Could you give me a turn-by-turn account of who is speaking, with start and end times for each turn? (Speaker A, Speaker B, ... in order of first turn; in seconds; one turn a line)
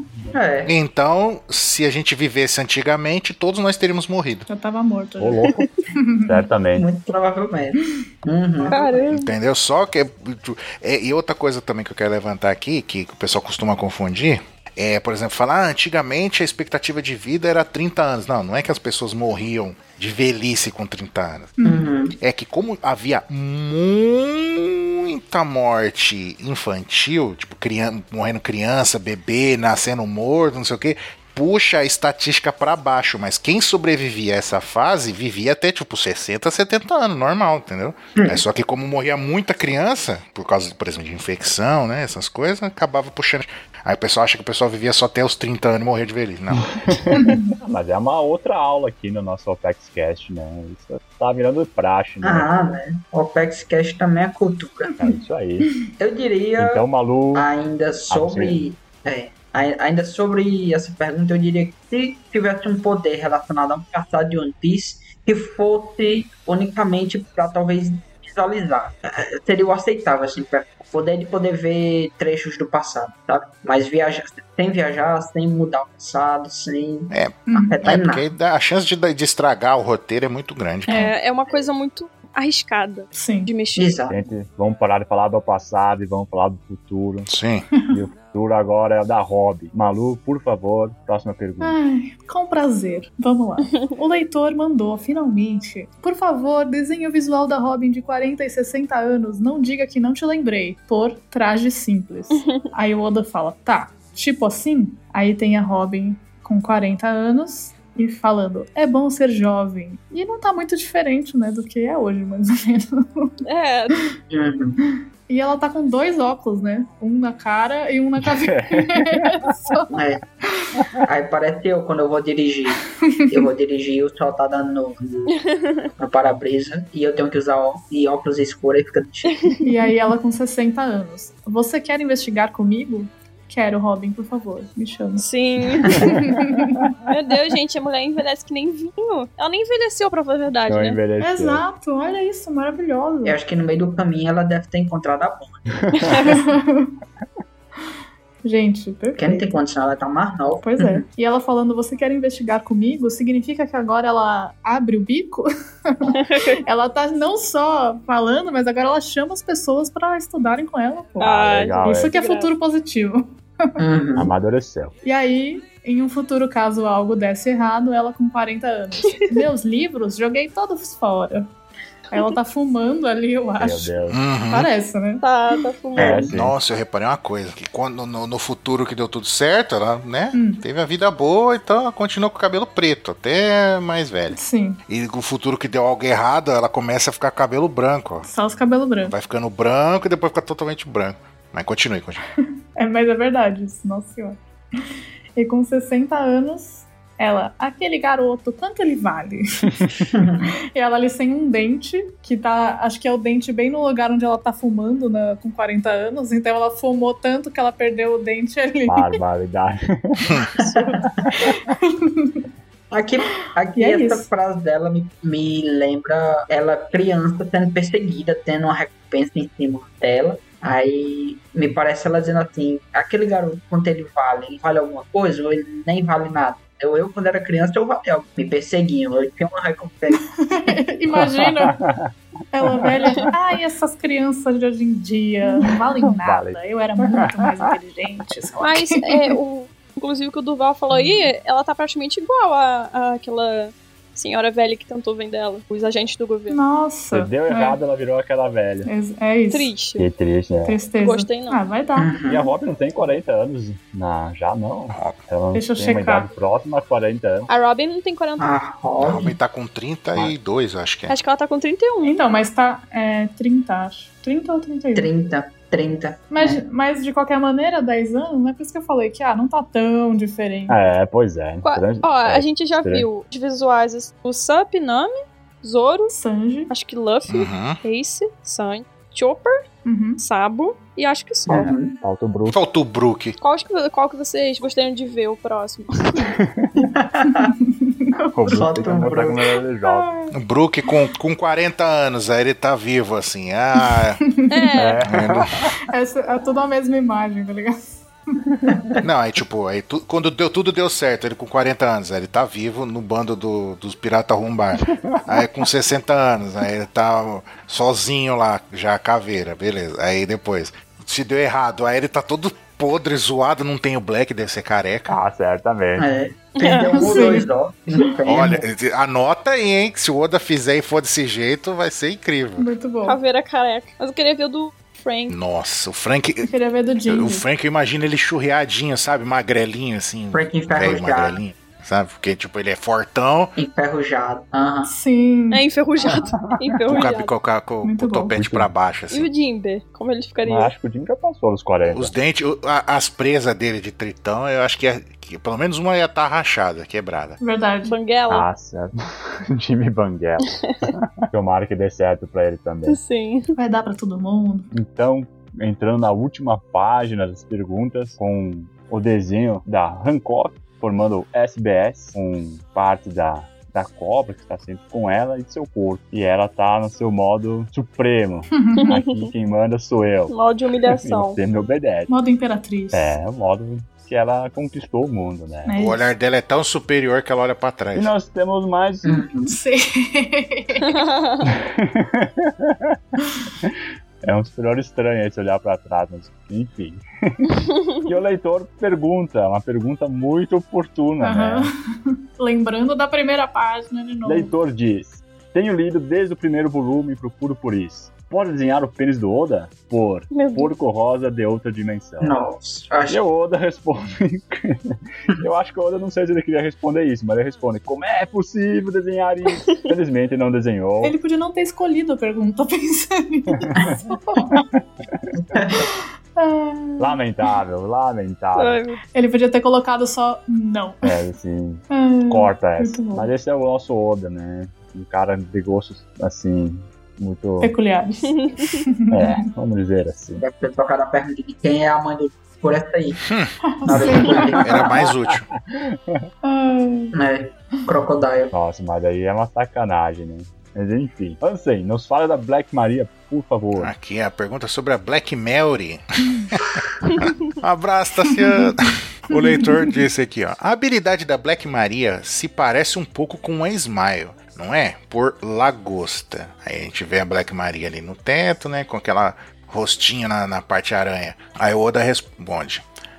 Speaker A: 0.3-0.7
Speaker B: 0.7-4.5
Speaker C: 4.5-6.5
Speaker D: 5.2-5.6
Speaker D: 6.3-6.9
Speaker A: 6.8-9.1
Speaker E: 8.7-9.3
Speaker B: 9.1-21.5
Speaker C: 21.6-21.9
Speaker A: 21.6-22.2
Speaker B: 22.2-47.0
Speaker D: 46.9-52.8
Speaker C: 47.1-47.5
Speaker A: 52.2-54.9
Speaker D: 55.0-55.7
Speaker A: 56.0-78.3
Speaker D: 56.6-57.5
Speaker D: 58.1-58.6
Speaker B: 77.1-81.1
Speaker C: 77.5-77.8
Speaker C: 80.9-81.1
Speaker E: 80.9-83.9
Speaker C: 83.1-83.5
Speaker A: 83.8-84.2
Speaker D: 84.1-87.3
Speaker B: 87.3-87.7
Speaker D: 87.9-91.8
Speaker C: 91.6-113.3
Speaker E: 102.3-102.6
Speaker E: 113.5-114.0
Speaker A: 114.3-114.8
Speaker C: 115.3-120.0
Speaker D: 118.2-119.4
Speaker A: 119.9-120.2
Speaker A: 121.0-125.3
Speaker C: 122.9-123.4
Speaker E: 125.5-125.9
Speaker A: 126.0-129.5
Speaker C: 129.6-135.2
Speaker E: 135.2-136.1
Speaker C: 135.8-136.8
Speaker E: 137.1-141.0
Speaker D: 140.7-141.6
Speaker C: 141.2-143.4
Speaker A: 143.2-145.7
Speaker C: 146.1-146.9
Speaker C: 148.4-149.5
Speaker A: 149.2-151.1
Speaker C: 150.6-163.8
Speaker E: 156.1-156.6
Speaker E: 161.2-162.5
Speaker D: 161.2-162.2
Speaker A: 163.8-164.3
Speaker D: 164.2-165.0
Speaker C: 165.0-171.5
Speaker E: 169.1-169.3
Speaker C: 172.1-174.0
Speaker D: 173.6-174.2
Speaker B: 174.1-174.7
Speaker C: 174.5-175.2
Speaker E: 175.2-176.3
Speaker A: 176.0-176.3
Speaker D: 176.0-176.6
Speaker B: 176.3-184.4
Speaker C: 180.3-180.6
Speaker C: 184.3-184.8
Speaker B: 184.9-188.3
Speaker C: 188.2-189.2
Speaker B: 189.0-192.2
Speaker C: 192.8-194.4
Speaker C: 195.4-209.1
Speaker A: 200.1-200.5
Speaker D: 208.9-210.4
Speaker A: 210.6-211.3
Speaker D: 211.3-211.6
Speaker C: 211.4-212.4
Speaker A: 212.9-230.3
Speaker C: 213.4-214.3
Speaker C: 230.3-231.8
Speaker D: 231.2-232.1
Speaker C: 232.5-239.3
Speaker D: 232.7-233.3
Speaker D: 235.6-237.7
Speaker E: 238.6-246.6
Speaker A: 240.9-241.2
Speaker C: 246.5-247.8
Speaker D: 247.1-248.9
Speaker C: 248.8-249.7
Speaker E: 249.5-250.1
Speaker D: 250.0-250.8
Speaker C: 250.7-252.2
Speaker E: 251.0-251.6
Speaker A: 252.0-252.4
Speaker D: 252.3-257.5
Speaker C: 255.5-256.3
Speaker E: 257.5-258.5
Speaker A: 258.4-259.4
Speaker B: 259.0-261.1
Speaker E: 261.1-262.2
Speaker C: 262.0-265.1
Speaker A: 264.9-266.6
Speaker C: 266.3-270.8
Speaker D: 270.7-273.1
Speaker E: 271.6-276.2
Speaker C: 276.1-276.7
Speaker E: 276.7-279.6
Speaker B: 277.3-277.8
Speaker C: 279.9-280.2
Speaker E: 280.2-281.7
Speaker A: 281.5-281.9
Speaker D: 281.6-282.6
Speaker B: 282.5-283.4
Speaker E: 283.4-286.3
Speaker D: 286.4-286.7
Speaker A: 286.8-287.5
Speaker C: 287.4-289.0
Speaker D: 288.4-290.1
Speaker A: 288.5-289.4
Speaker C: 289.8-290.4
Speaker B: 290.3-294.2
Speaker C: 294.2-294.8
Speaker E: 294.5-295.0
Speaker D: 294.8-295.7
Speaker B: 295.1-295.5
Speaker C: 295.9-297.8
Speaker B: 299.0-315.2
Speaker D: 305.0-305.5
Speaker D: 315.1-316.1
Speaker A: 316.0-318.7
Speaker E: 316.6-317.3
Speaker C: 316.8-317.5
Speaker B: 318.3-322.7
Speaker C: 322.6-323.2
Speaker E: 323.0-325.4
Speaker B: 325.3-326.5
Speaker C: 326.4-327.4
Speaker B: 327.1-333.6
Speaker A: 330.3-331.4
Speaker A: 333.6-334.9
Speaker C: 334.9-335.6
Speaker E: 335.5-337.3
Speaker D: 336.4-337.0
Speaker B: 336.9-339.3
Speaker C: 337.8-338.4
Speaker D: 338.4-338.7
Speaker E: 339.1-340.7
Speaker D: 340.4-342.1
Speaker B: 341.9-347.4
Speaker C: 347.4-347.9
Speaker E: 347.8-348.5
Speaker D: 348.3-353.0
Speaker E: 352.9-353.5
Speaker C: 353.6-354.7
Speaker D: 354.7-370.3
Speaker C: 368.6-368.9
Speaker E: 368.8-369.3
Speaker E: 370.3-371.4
Speaker D: 370.9-372.1
Speaker C: 372.1-373.2
Speaker D: 372.9-375.8
Speaker C: 375.6-376.1
Speaker B: 375.8-378.1
Speaker D: 377.9-379.2
Speaker A: 379.0-379.5
Speaker C: 379.5-381.0
Speaker E: 380.8-381.5
Speaker D: 381.5-383.0
Speaker D: 383.6-387.5
Speaker D: 388.1-391.7
Speaker C: 391.2-391.8
Speaker C: 392.4-394.5
Speaker D: 394.2-402.4
Speaker E: 400.3-400.7
Speaker A: 402.2-403.2
Speaker D: 403.1-411.2
Speaker C: 411.0-414.6
Speaker D: 413.5-413.9
Speaker A: 415.3-415.9
Speaker C: 416.4-417.2
Speaker D: 417.0-418.8
Speaker E: 418.6-419.0
Speaker C: 419.1-421.1
Speaker D: 421.0-427.8
Speaker C: 421.9-423.3
Speaker C: 427.6-429.4
Speaker E: 428.2-428.9
Speaker D: 429.1-430.4
Speaker A: 430.4-433.2
Speaker B: 433.3-433.6
Speaker C: 433.6-434.8
Speaker A: 433.9-434.9
Speaker B: 434.6-435.5
Speaker D: 434.8-435.1
Speaker D: 435.8-436.2
Speaker C: 436.4-437.2
Speaker A: 437.1-438.5
Speaker D: 438.5-443.9
Speaker B: 443.8-462.8
Speaker C: 449.3-449.7